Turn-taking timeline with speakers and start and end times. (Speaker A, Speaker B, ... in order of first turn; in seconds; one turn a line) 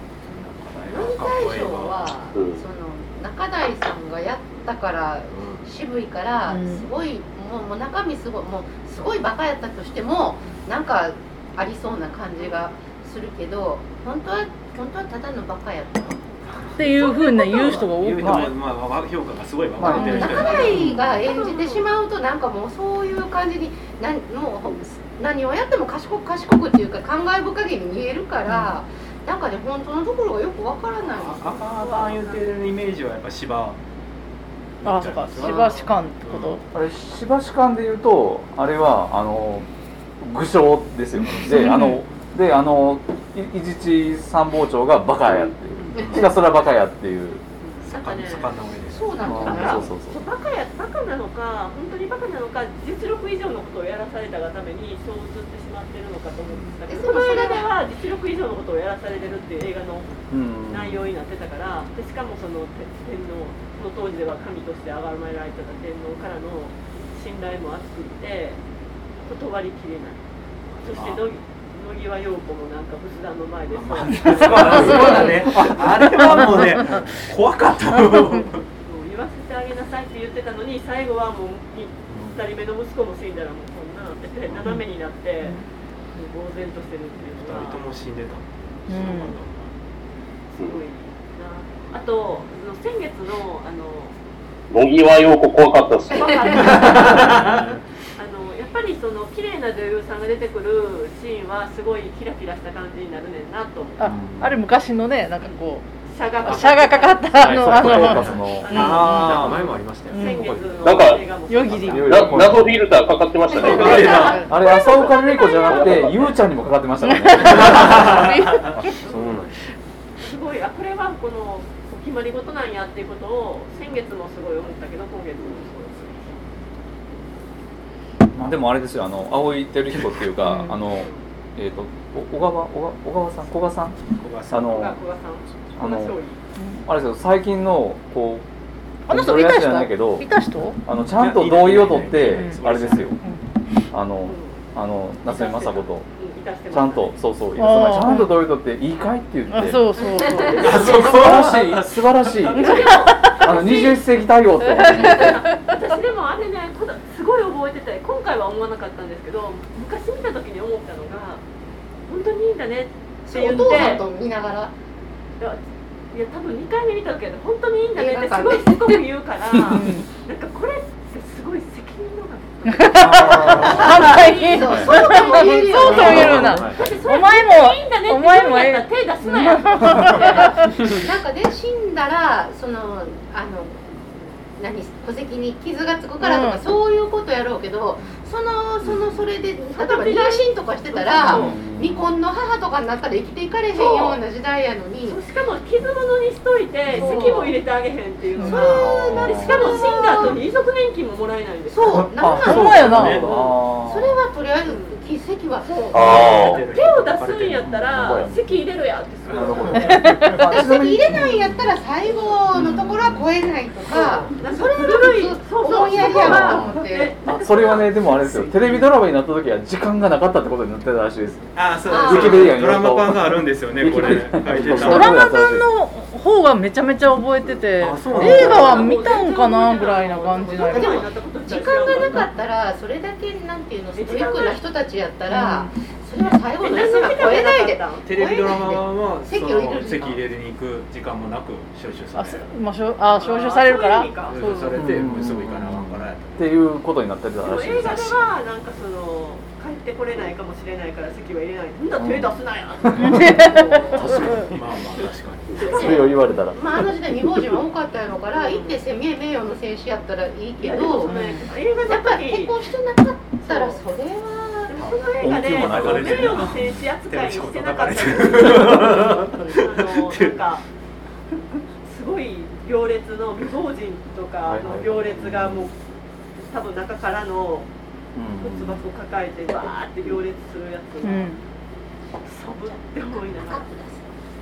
Speaker A: 0.3-2.0
Speaker B: 0.9-16.3
Speaker C: 2.3-2.6
Speaker A: 5.3-5.6
Speaker D: 6.5-6.9
Speaker A: 16.5-20.9
Speaker D: 16.8-18.6
Speaker B: 17.0-17.9
Speaker E: 18.2-18.5
Speaker E: 19.8-21.1
Speaker B: 19.8-31.6
Speaker D: 20.0-20.9
Speaker F: 21.2-21.9
Speaker D: 28.4-28.8
Speaker A: 31.2-33.8
Speaker F: 31.8-32.5
Speaker A: 34.8-36.6
Speaker D: 34.8-36.6
Speaker F: 35.4-35.8
Speaker E: 36.7-39.7
Speaker E: 40.2-47.4
Speaker A: 41.2-41.6
Speaker D: 41.5-42.0
Speaker A: 45.9-46.3
Speaker F: 47.6-48.5
Speaker A: 47.8-49.6
Speaker B: 47.9-49.9
Speaker E: 49.2-50.2
Speaker F: 49.3-60.2
Speaker A: 56.5-56.8
Speaker B: 56.9-57.7
Speaker E: 60.3-61.1
Speaker F: 60.7-68.6
Speaker F: 69.2-70.2
Speaker A: 70.7-71.2
Speaker F: 70.8-75.2
Speaker A: 73.7-78.6
Speaker D: 74.6-77.0
Speaker F: 78.8-85.5
Speaker A: 82.1-82.5
Speaker F: 86.1-87.8
Speaker A: 87.2-89.7
Speaker D: 88.9-89.4
Speaker F: 90.6-94.1
Speaker C: 94.7-96.8
Speaker F: 96.1-97.5
Speaker B: 96.1-96.8
Speaker A: 96.7-97.8
Speaker F: 98.2-104.1
Speaker D: 104.0-105.9
Speaker E: 104.0-104.5
Speaker F: 106.0-109.5
Speaker D: 106.4-109.5
Speaker G: 107.3-111.1
Speaker E: 107.5-108.8
Speaker A: 108.7-109.8
Speaker D: 110.1-110.5
Speaker F: 110.1-112.4
Speaker C: 110.8-111.3
Speaker D: 111.4-112.4
Speaker E: 111.8-112.8
Speaker C: 111.9-114.4
Speaker B: 113.6-114.5
Speaker A: 113.7-114.5
Speaker E: 113.7-118.0
Speaker F: 113.8-114.3
Speaker C: 115.8-116.2
Speaker D: 117.0-118.9
Speaker A: 117.5-118.7
Speaker G: 118.8-119.5
Speaker F: 119.0-119.5
Speaker F: 120.2-126.4
Speaker C: 125.4-125.7
Speaker E: 128.3-135.0
Speaker D: 130.4-130.8
Speaker A: 134.1-134.9
Speaker F: 134.7-136.4
Speaker E: 135.8-136.2
Speaker E: 136.8-138.4
Speaker D: 139.1-140.8
Speaker E: 139.1-140.3
Speaker E: 140.8-143.2
Speaker A: 141.2-143.1
Speaker D: 142.2-142.6
Speaker E: 143.9-146.1
Speaker F: 144.2-144.6
Speaker F: 145.2-147.2
Speaker E: 146.7-149.8
Speaker D: 147.6-148.4
Speaker D: 149.5-151.2
Speaker F: 150.4-151.1
Speaker A: 150.5-152.5
Speaker E: 151.0-155.4
Speaker F: 152.5-154.0
Speaker D: 152.7-153.4
Speaker D: 154.7-155.3
Speaker F: 154.8-161.4
Speaker F: 162.1-164.0
Speaker B: 163.2-164.7
Speaker F: 165.4-180.5
Speaker B: 167.9-169.0
Speaker D: 169.7-170.1
Speaker D: 172.7-180.7
Speaker E: 172.9-174.0
Speaker B: 173.1-176.6
Speaker G: 174.6-174.9
Speaker E: 175.9-176.8
Speaker G: 176.1-176.8
Speaker B: 180.2-184.0
Speaker B: 184.5-195.2
Speaker D: 186.2-186.6
Speaker F: 189.7-191.6
Speaker E: 191.2-192.1
Speaker F: 193.7-194.2
Speaker F: 195.1-202.1
Speaker B: 196.9-197.6
Speaker D: 197.0-197.3
Speaker D: 198.4-198.7
Speaker B: 198.4-200.4
Speaker E: 198.7-199.8
Speaker B: 201.7-206.2
Speaker E: 201.9-204.2
Speaker D: 202.2-203.3
Speaker A: 202.8-203.4
Speaker F: 204.7-205.0
Speaker F: 205.6-210.2
Speaker C: 205.9-206.6
Speaker A: 206.0-208.3
Speaker E: 207.6-208.3
Speaker E: 209.3-211.7
Speaker D: 209.7-210.4
Speaker B: 210.4-217.2
Speaker F: 212.0-212.3
Speaker E: 212.5-213.3
Speaker F: 213.9-218.8
Speaker E: 215.9-225.7
Speaker A: 221.5-225.2
Speaker B: 221.9-222.5
Speaker D: 224.7-231.1
Speaker A: 227.8-228.9
Speaker F: 228.1-232.3
Speaker B: 230.6-240.2
Speaker F: 233.9-234.6
Speaker D: 235.3-235.7
Speaker F: 236.6-238.1
Speaker A: 238.0-242.5
Speaker D: 242.1-244.7
Speaker F: 243.1-244.7
Speaker A: 244.2-246.6
Speaker E: 244.7-248.3
Speaker F: 247.4-254.3
Speaker E: 251.9-252.4
Speaker E: 252.9-254.6
Speaker D: 253.0-254.4
Speaker A: 254.5-255.8
Speaker F: 255.5-256.6
Speaker B: 255.6-261.2
Speaker E: 255.6-256.7
Speaker F: 258.3-258.8
Speaker F: 260.6-262.6
Speaker D: 261.0-261.5
Speaker B: 261.9-264.8
Speaker F: 263.4-263.8
Speaker F: 264.7-270.6
Speaker A: 264.7-270.4
Speaker E: 265.2-266.8
Speaker F: 271.8-275.7
Speaker E: 274.4-275.6
Speaker F: 276.4-277.7
Speaker E: 278.1-278.8
Speaker F: 278.4-281.3
Speaker D: 281.0-281.4
Speaker F: 282.2-283.7
Speaker B: 282.7-284.1